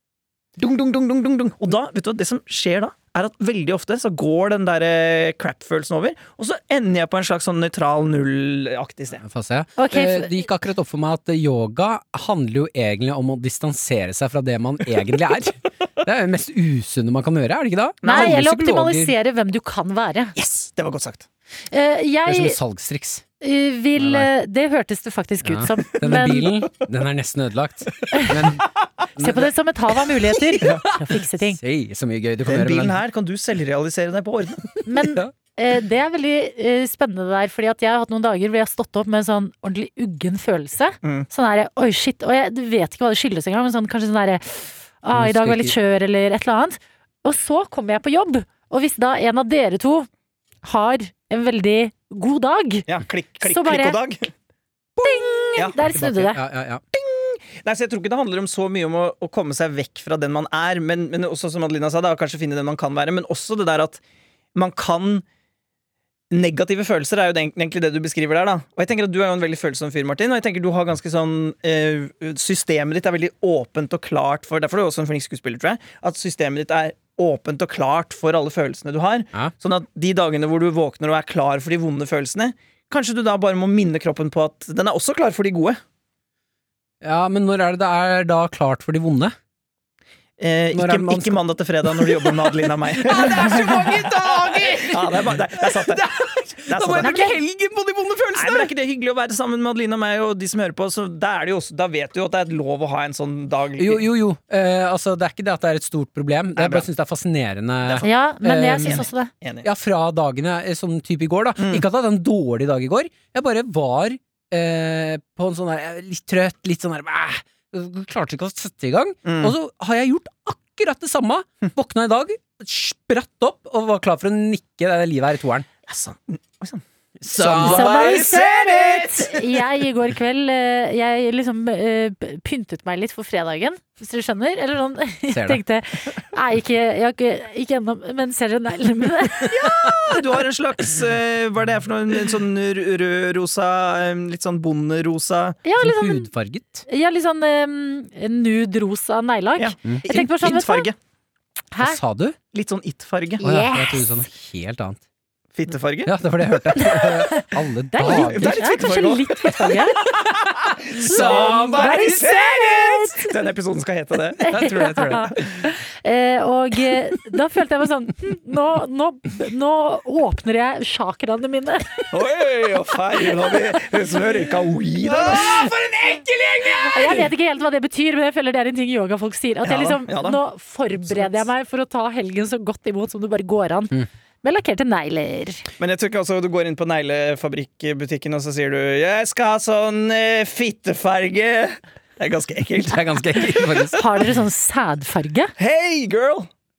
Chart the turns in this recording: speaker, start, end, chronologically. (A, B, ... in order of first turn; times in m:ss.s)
0:00.6-0:09.2 A
0:09.2-0:19.1 B
0:09.8-0:10.3 C
0:18.0-0:18.4 A
0:18.0-0:20.4 C
0:20.4-0:21.2 A
0:21.7-0:22.6 C
0:22.2-0:23.2 B
0:23.4-0:26.5 C
0:24.0-0:24.3 B
0:25.4-0:29.5 B
0:28.1-0:28.4 C
0:29.2-0:31.6 C
0:30.3-0:33.0 B
0:32.4-0:34.7 A
0:34.8-0:50.1 C
0:35.0-0:35.3 B
0:45.1-0:45.7 B
0:50.6-0:52.9 C
0:52.9-0:54.3 A
0:53.4-0:54.0 C
0:55.0-0:56.8 B
0:55.0-0:56.4 C
0:56.9-1:04.0 A
1:04.5-1:05.2 A
1:06.3-1:25.8 A
1:27.0-1:29.3 B
1:30.4-1:36.0 A
1:30.7-1:38.7 B
1:36.7-1:37.3 A
1:37.0-1:37.4 C
1:38.3-1:44.0 A
1:43.8-1:49.0 B
1:46.6-1:46.8 A
1:48.0-1:49.3 C
1:48.8-1:49.7 A
1:49.6-2:05.7 B
1:51.6-1:51.8 A
1:59.2-1:59.5 A
2:05.9-2:06.8 A
2:07.2-2:08.4 B
2:07.3-2:09.4 A
2:07.4-2:19.6 C
2:15.3-2:15.6 B
2:19.4-2:25.6 A
2:25.6-2:26.3 C
2:25.8-2:26.8 B
2:26.9-2:30.9 C
2:29.6-2:31.0 A
2:31.7-2:32.0 C
2:31.8-2:32.4 B
2:32.5-2:33.4 A
2:33.4-2:34.2 C
2:33.4-2:35.0 B
2:35.5-2:36.1 A
2:36.0-2:38.7 B
2:36.7-2:40.1 C
2:38.0-2:44.5 A
2:40.1-2:42.3 B
2:41.0-2:43.3 C
2:44.4-2:52.1 C
2:44.5-2:45.7 B
2:52.1-2:55.7 A
2:55.0-2:57.2 B
2:56.9-3:05.7 C
2:59.6-3:00.4 A
3:05.8-3:13.8 A
3:12.8-3:14.0 B
3:13.9-3:15.5 C
3:15.6-3:16.5 A